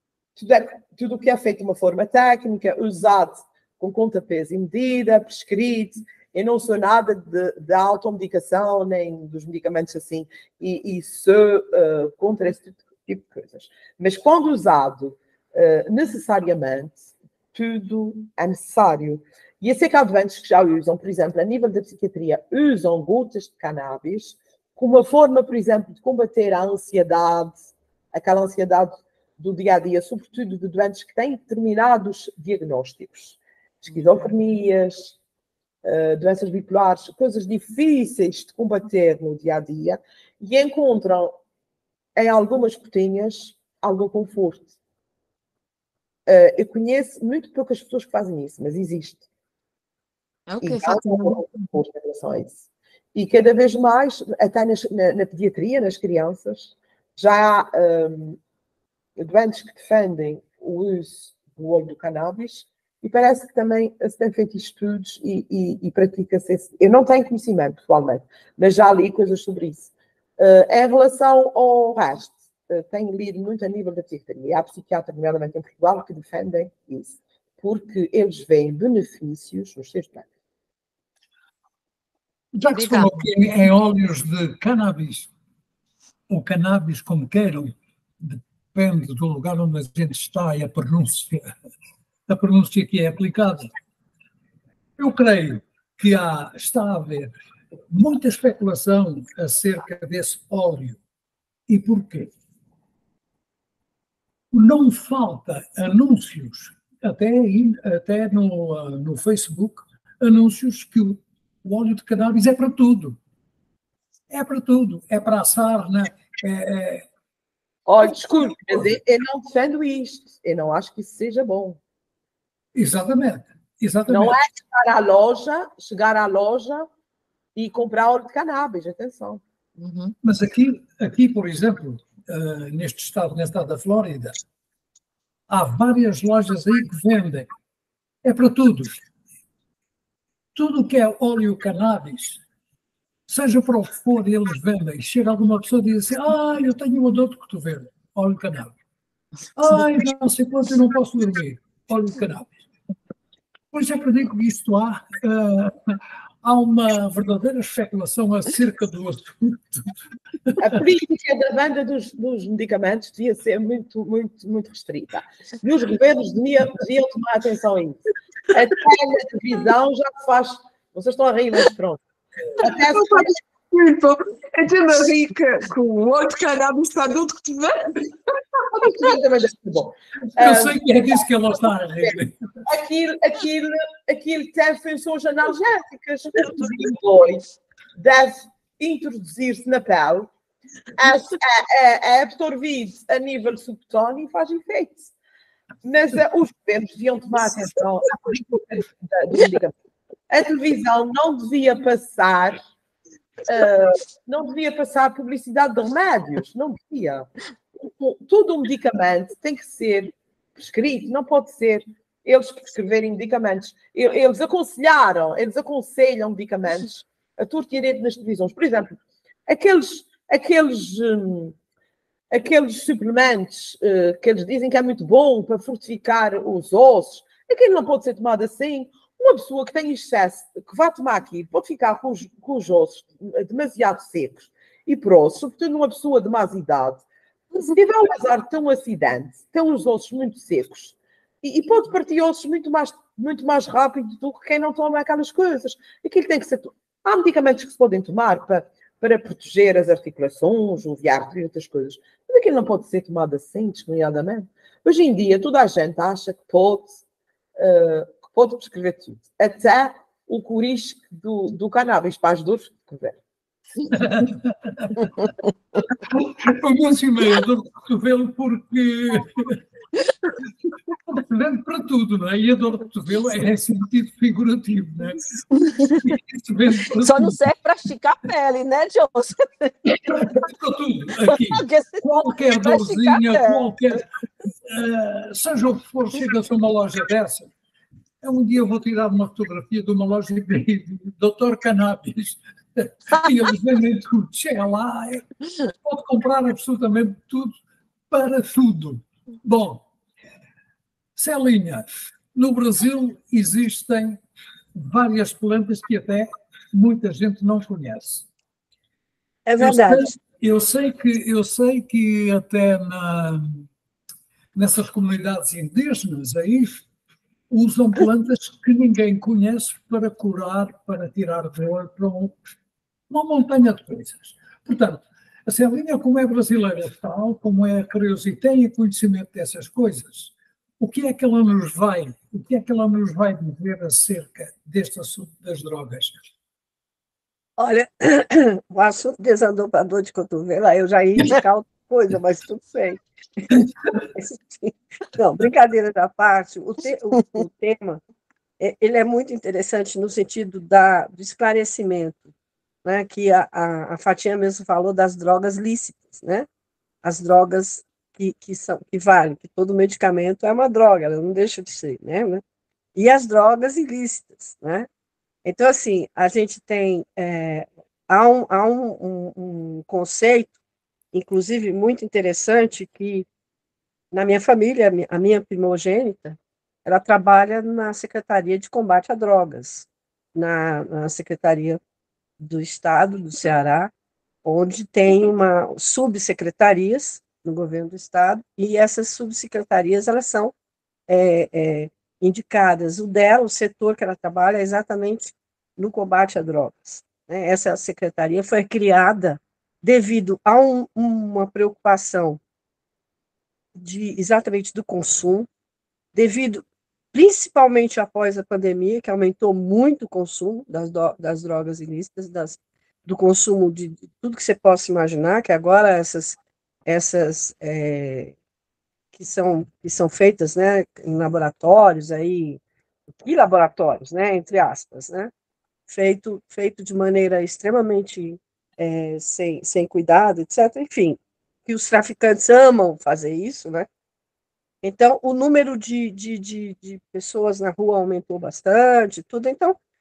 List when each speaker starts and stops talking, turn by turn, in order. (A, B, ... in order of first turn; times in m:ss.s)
0:00.4-0:17.0 A
0:17.5-0:35.1 A
0:35.8-0:41.4 A
0:42.2-0:44.7 A
0:46.2-0:49.2 A
0:50.5-0:51.4 B
0:50.6-0:52.6 A
0:53.1-0:58.4 A
0:59.2-1:20.2 A
1:22.5-1:25.3 C
1:22.7-1:23.2 B
1:26.3-1:31.5 C
1:32.3-1:33.7 C
1:35.0-1:37.3 C
1:37.9-1:41.0 C
1:41.7-1:42.3 C
1:44.5-1:53.2 C
1:54.3-1:57.0 C
1:57.8-2:01.8 A
2:02.7-2:04.4 C
2:04.1-2:06.9 A
2:07.6-2:09.4 A
2:09.8-2:10.1 B
2:10.2-2:14.3 C
2:15.5-2:17.5 C
2:18.2-2:19.0 C
2:20.5-2:22.4 C
2:23.3-2:28.7 C
2:29.6-2:32.6 C
2:33.7-2:39.9 C
2:40.5-2:40.8 C
2:40.6-2:52.0 A
2:52.6-2:53.4 A
2:52.9-2:58.1 B
2:58.8-2:59.0 B
2:58.8-3:01.2 A
3:00.4-3:02.4 C
3:02.6-3:07.4 A
3:08.0-3:10.3 A
3:11.0-3:15.1 A
3:15.8-3:19.7 A
3:20.3-3:22.6 A
3:23.4-3:27.3 A
3:27.8-3:39.0 A
3:39.5-3:41.6 A
3:42.3-4:17.0 A
4:17.6-4:23.2 A
4:23.9-4:25.1 C
4:26.0-4:29.6 C
4:31.1-4:37.4 C
4:37.0-4:40.4 D
4:40.0-4:44.1 C
4:41.3-4:43.8 D
4:44.7-4:47.5 C
4:48.2-4:55.2 C
4:55.8-4:57.5 C
4:58.1-4:59.8 C
5:01.2-5:04.2 C
5:04.7-5:08.2 C
5:09.4-5:10.1 E
5:09.6-5:13.6 C
5:14.5-5:16.8 C
5:17.5-5:22.3 C
5:23.1-5:36.1 C
5:37.6-5:48.0 E
5:48.6-5:52.3 E
5:52.8-5:56.5 E
5:57.0-6:02.4 E
6:02.9-6:04.9 E
6:05.4-6:10.6 E
6:11.1-6:13.3 E
6:14.1-6:21.8 E
6:22.4-6:23.9 E
6:24.4-6:30.5 E
6:31.1-6:42.4 E
6:43.8-6:45.5 E
6:46.1-6:58.4 E
6:59.1-7:02.6 E
7:03.2-7:05.3 E
7:05.9-7:13.9 E
7:14.8-7:19.8 E